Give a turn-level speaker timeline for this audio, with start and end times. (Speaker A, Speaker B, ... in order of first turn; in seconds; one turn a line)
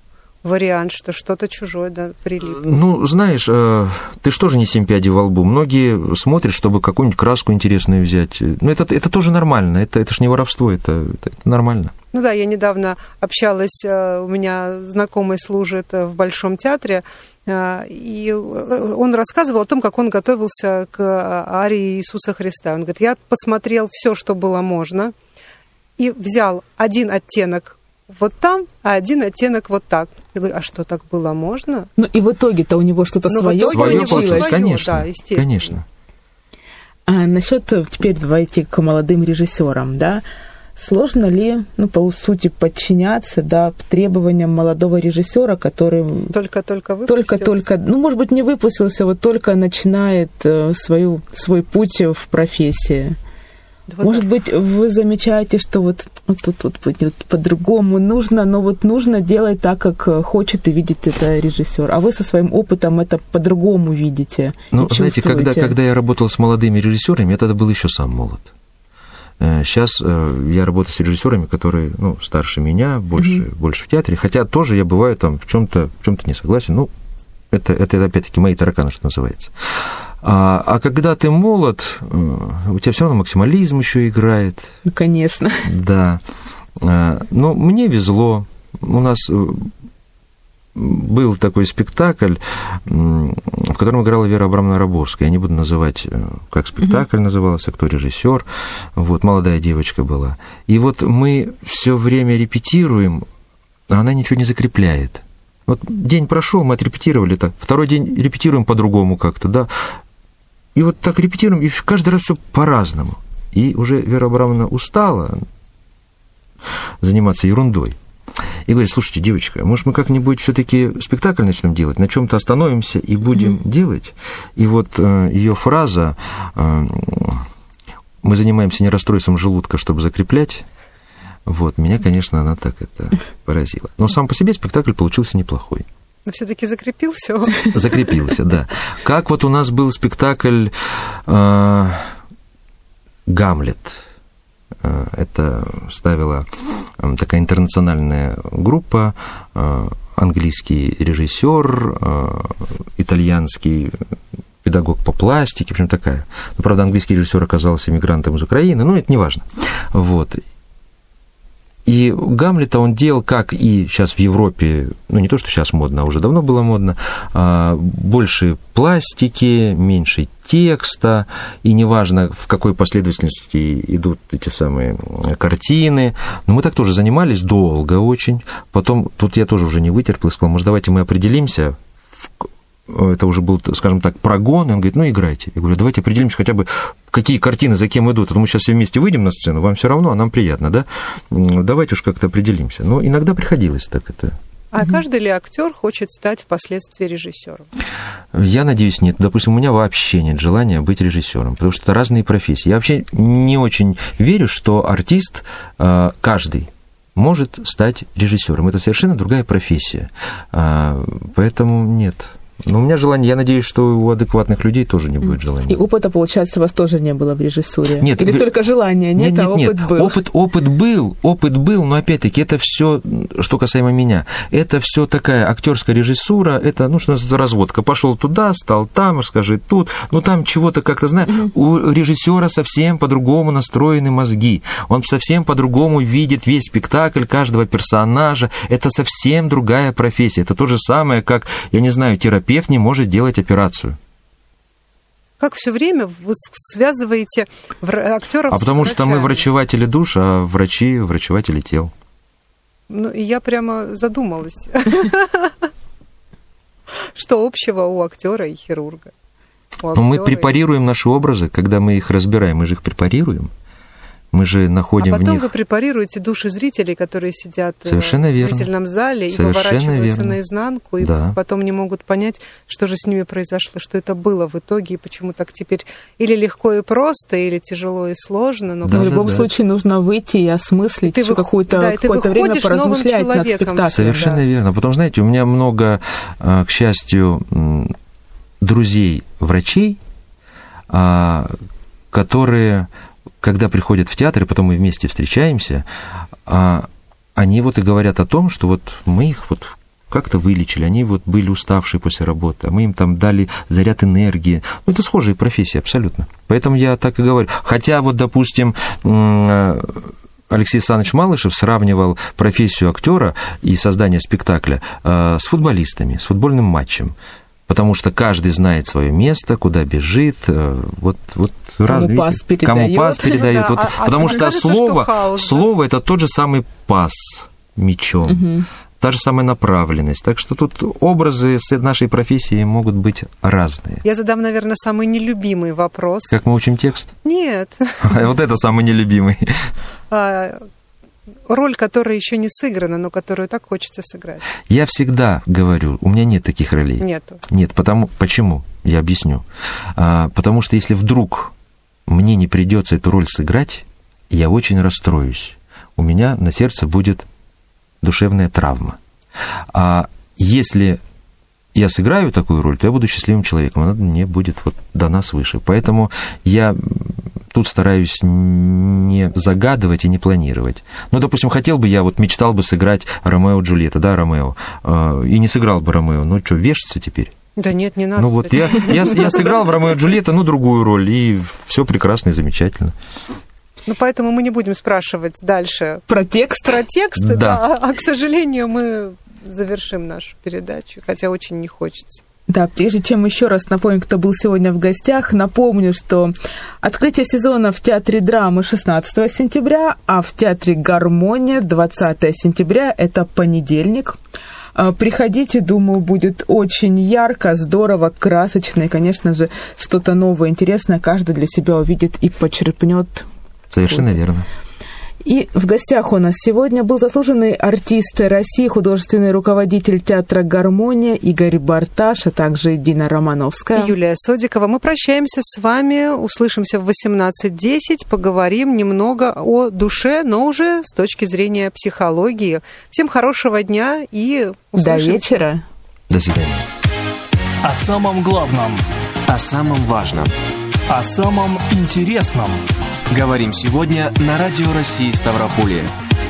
Speaker A: 0.4-2.6
Speaker B: 2.4-11.9
Speaker A: 12.1-25.1
Speaker A: 26.0-31.9
Speaker C: 32.0-34.6
Speaker A: 33.3-35.8
Speaker B: 33.7-35.9
Speaker C: 37.1-40.2
Speaker C: 40.8-46.3
Speaker A: 46.3-47.6
Speaker C: 47.1-53.2
Speaker A: 53.9-54.2
Speaker C: 54.0-65.8
Speaker B: 64.7-68.5
Speaker B: 69.4-76.9
Speaker C: 73.2-73.4
Speaker B: 77.5-84.8
Speaker C: 84.8-85.7
Speaker B: 85.7-86.2
Speaker B: 86.8-89.7
Speaker B: 90.8-103.3
Speaker B: 103.9-109.7
Speaker B: 110.8-115.5
Speaker B: 117.0-118.0
Speaker B: 118.7-127.5
Speaker B: 128.2-130.7
Speaker B: 131.5-135.9
Speaker A: 136.3-138.0
Speaker B: 137.7-142.1
Speaker B: 143.3-144.1
Speaker B: 144.8-154.0
Speaker B: 154.6-160.4
Speaker B: 161.8-194.4
Speaker A: 194.7-197.7
Speaker B: 198.3-215.8
Speaker C: 215.7-220.2
Speaker B: 218.0-218.5
Speaker B: 219.2-244.0
Speaker A: 245.4-249.5
Speaker B: 248.5-251.9
Speaker A: 252.9-255.7
Speaker A: 257.0-259.1
Speaker A: 259.8-260.6
Speaker B: 259.9-263.5
Speaker B: 264.3-265.5
Speaker A: 265.0-279.3
Speaker B: 267.9-268.7
Speaker B: 269.3-270.4
Speaker B: 271.0-271.4
Speaker B: 278.9-279.5
Speaker C: 278.9-284.4
Speaker A: 281.1-284.1
Speaker B: 283.9-287.9
Speaker B: 288.6-290.0
Speaker B: 290.9-291.6
Speaker B: 292.1-292.9
Speaker B: 293.4-295.9
Speaker B: 296.5-317.1
Speaker B: 317.7-328.5
Speaker C: 321.9-323.4
Speaker A: 323.0-325.7
Speaker C: 328.3-328.7
Speaker B: 329.0-334.0
Speaker A: 334.0-336.4
Speaker B: 336.3-337.1
Speaker A: 337.2-338.2
Speaker B: 338.0-339.7
Speaker A: 340.1-340.7
Speaker A: 341.5-344.4
Speaker B: 344.7-351.5
Speaker A: 347.0-347.4
Speaker B: 352.1-357.3
Speaker B: 358.0-359.0
Speaker B: 359.7-361.0
Speaker B: 361.7-377.3
Speaker A: 377.6-379.6
Speaker B: 378.2-382.9
Speaker A: 383.9-386.1
Speaker C: 386.1-386.8
Speaker A: 386.6-392.2
Speaker B: 387.2-387.6
Speaker C: 392.5-404.2
Speaker C: 404.8-413.3
Speaker B: 413.7-414.5
Speaker C: 415.2-423.9
Speaker A: 423.8-435.4
Speaker C: 434.8-435.6
Speaker B: 436.1-436.7
Speaker D: 437.6-438.8
Speaker E: 439.3-440.3
Speaker D: 440.9-442.6
Speaker E: 443.1-445.9